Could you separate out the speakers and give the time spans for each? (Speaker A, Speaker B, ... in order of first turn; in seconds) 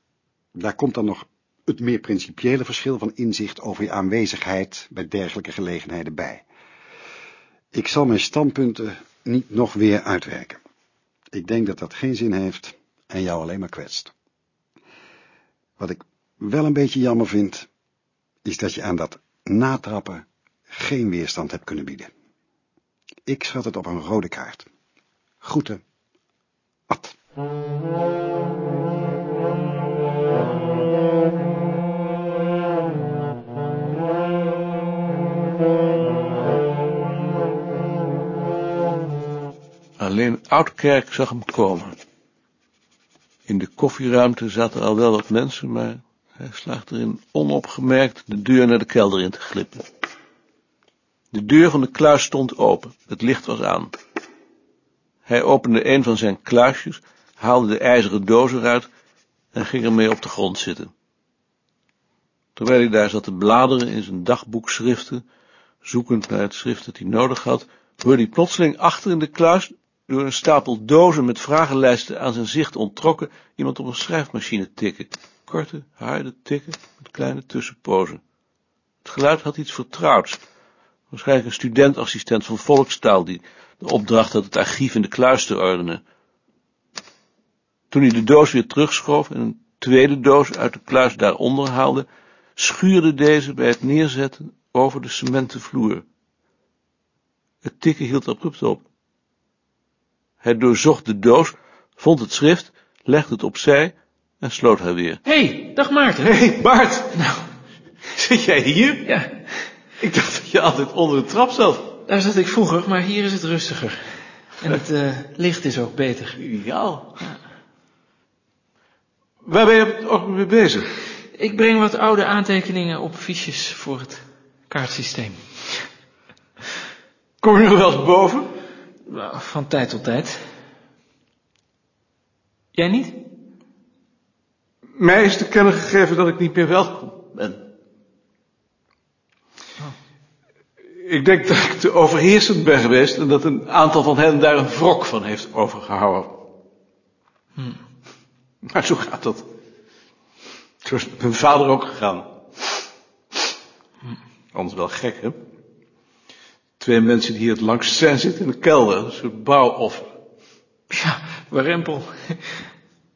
Speaker A: 0.6-6.4, 7.7-10.6, 11.3-14.1, 15.8-17.7, 18.4-22.1, 23.3-24.7, 25.4-25.8, 26.9-27.1
Speaker B: 40.0-42.0, 43.5-49.8, 51.3-53.9, 55.2-58.9, 59.5-60.9, 62.5-65.2, 65.8-78.2, 79.0-80.4, 81.1-86.0, 87.9-96.0, 97.6-98.8, 100.4-105.2, 106.2-107.2, 108.1-109.1, 110.0-112.0, 116.3-117.2, 119.4-121.0, 127.4-128.5, 134.9-137.6, 140.9-146.3, 148.6-149.4, 150.8-152.3, 154.5-155.4, 156.8-160.1
Speaker C: 105.2-106.3, 107.2-107.4, 109.0-109.7, 112.1-116.4, 121.3-125.8, 129.1-130.4, 132.8-133.2, 160.9-162.6